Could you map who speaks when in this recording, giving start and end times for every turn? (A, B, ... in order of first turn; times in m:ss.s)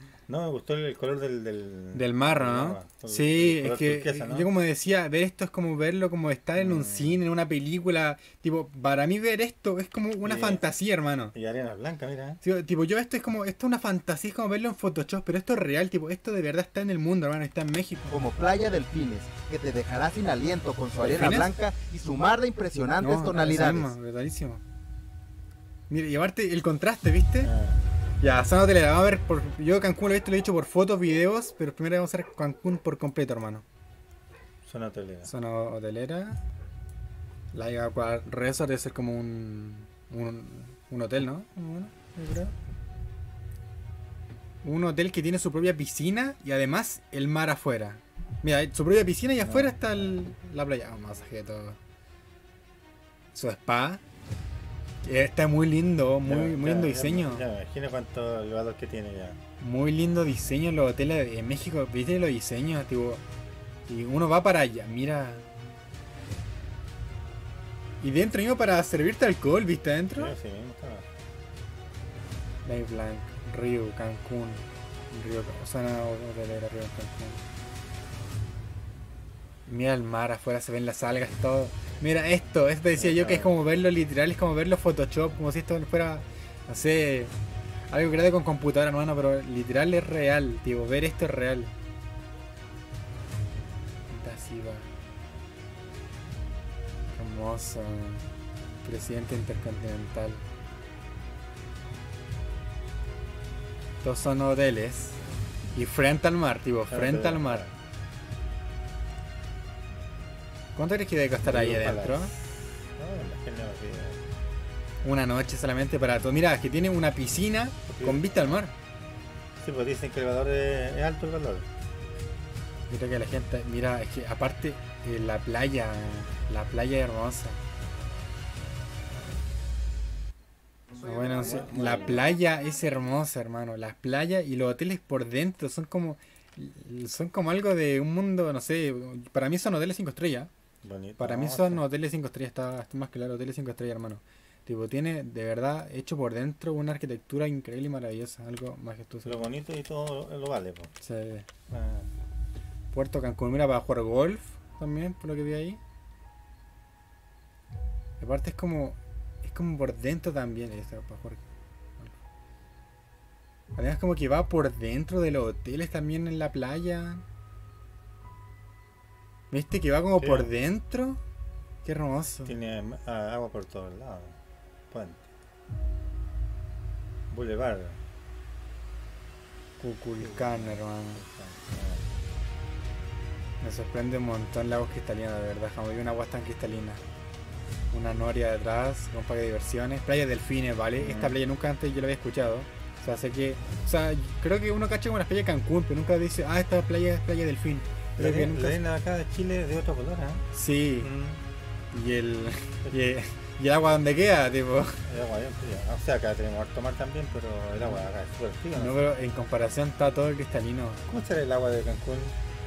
0:00.3-0:04.5 A
0:01.9-0:11.3 B
0:06.6-0:07.2 A
0:10.2-0:10.6 A
0:11.3-0:12.4 A
0:12.4-0:18.2 B
0:18.1-0:23.9 C
0:21.1-0:21.5 B
0:23.0-0:24.6 B
0:25.9-0:27.5 B
0:27.4-0:27.8 A
0:28.2-0:33.6 B
0:34.6-0:35.3 A
0:35.2-0:36.4 B
0:37.5-0:42.5 B
0:44.6-0:51.8 B
0:49.4-0:49.8 A
0:53.3-0:54.0 B
0:55.0-0:57.5 B
0:56.2-0:59.4 A
0:59.6-1:03.2 B
1:03.8-1:05.5 B
1:08.0-1:10.3 B
1:10.2-1:11.1 A
1:12.6-1:17.4 B
1:19.7-1:27.3 B
1:22.9-1:23.5 A
1:27.9-1:31.8 B
1:34.1-1:35.0 B
1:37.1-1:38.3 B
1:38.8-1:40.5 B
1:44.0-1:45.2 B
1:45.7-1:47.7 B
1:46.9-1:47.7 A
1:50.7-1:52.3 B
1:51.4-1:52.3 A
1:53.0-1:54.2 A
1:55.0-1:58.7 B
1:57.9-1:58.3 A
1:59.6-2:01.7 A
2:02.9-2:07.6 B
2:11.0-2:20.5 B
2:11.3-2:12.2 A
2:20.8-2:21.8 A
2:21.2-2:29.5 B
2:29.2-2:30.9 A
2:31.0-2:31.5 B
2:31.7-2:32.1 A
2:32.9-2:35.8 B
2:38.2-2:41.4 B
2:43.8-2:47.2 B
2:49.5-2:51.2 B
2:50.2-2:50.5 A
2:51.8-2:52.6 B
2:52.4-2:54.4 A
2:54.9-2:55.3 A
2:57.3-2:58.0 A
2:59.8-3:01.2 B
3:00.2-3:02.1 A
3:03.6-3:07.0 B
3:07.9-3:18.8 B
3:11.0-3:11.4 A
3:18.2-3:20.4 A
3:20.5-3:21.1 B
3:21.0-3:21.4 A
3:21.9-3:25.0 B
3:25.0-3:29.0 A
3:28.7-3:31.0 B
3:31.1-3:32.4 A